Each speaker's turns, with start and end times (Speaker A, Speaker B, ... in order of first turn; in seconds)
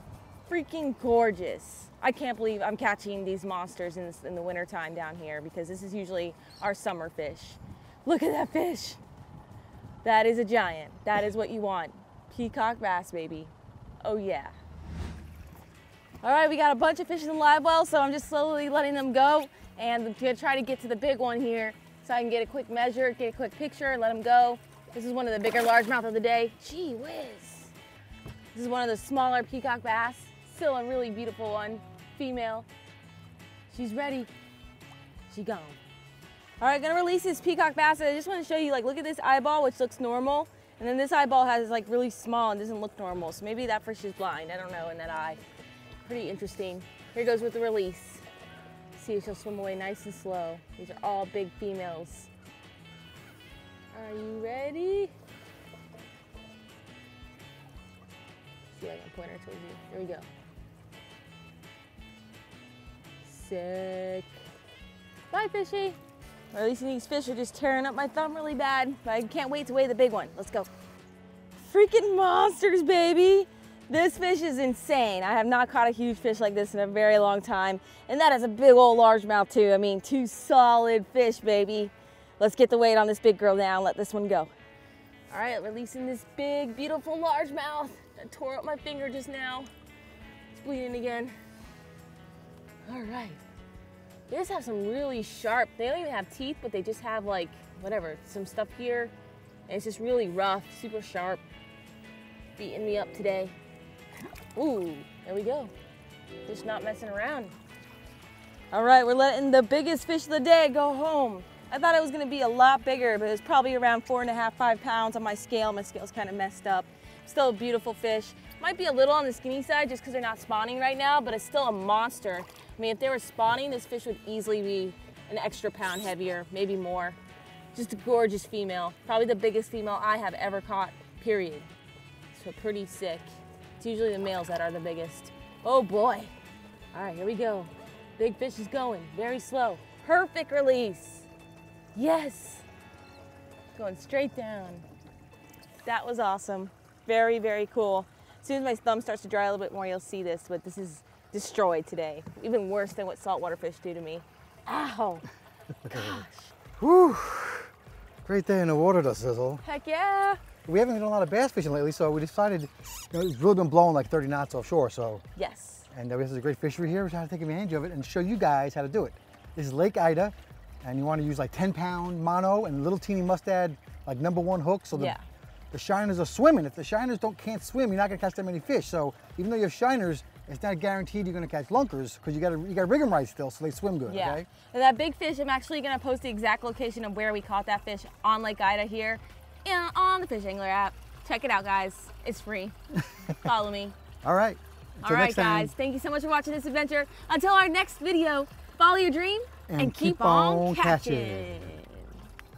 Speaker A: 0.5-9.0, 10.0-14.5, 16.2-27.7, 28.5-32.6, 33.7-34.3, 35.3-35.8, 36.6-45.4, 46.0-48.2, 48.9-52.3, 53.9-55.1, 58.7-60.2, 63.2-64.4, 65.3-66.0, 66.5-70.7, 71.6-84.5, 85.3-89.7, 90.5-91.3, 92.8-93.4, 94.3-99.1, 99.7-101.4, 102.6-103.5, 104.5-105.7, 106.5-107.5, 108.7-127.2, 127.7-131.7, 132.3-136.3, 136.9-141.3, 141.9-142.6, 143.7-144.8, 145.8-155.2, 155.9-156.5, 159.6-160.4, 165.3-165.9, 174.9-175.2, 184.1-192.7, 193.2-193.9, 195.0-202.1
Speaker B: 155.8-156.2, 156.8-157.7, 158.2-159.6, 160.7-165.2, 165.9-175.2, 175.7-184.5, 194.2-195.7, 199.7-201.8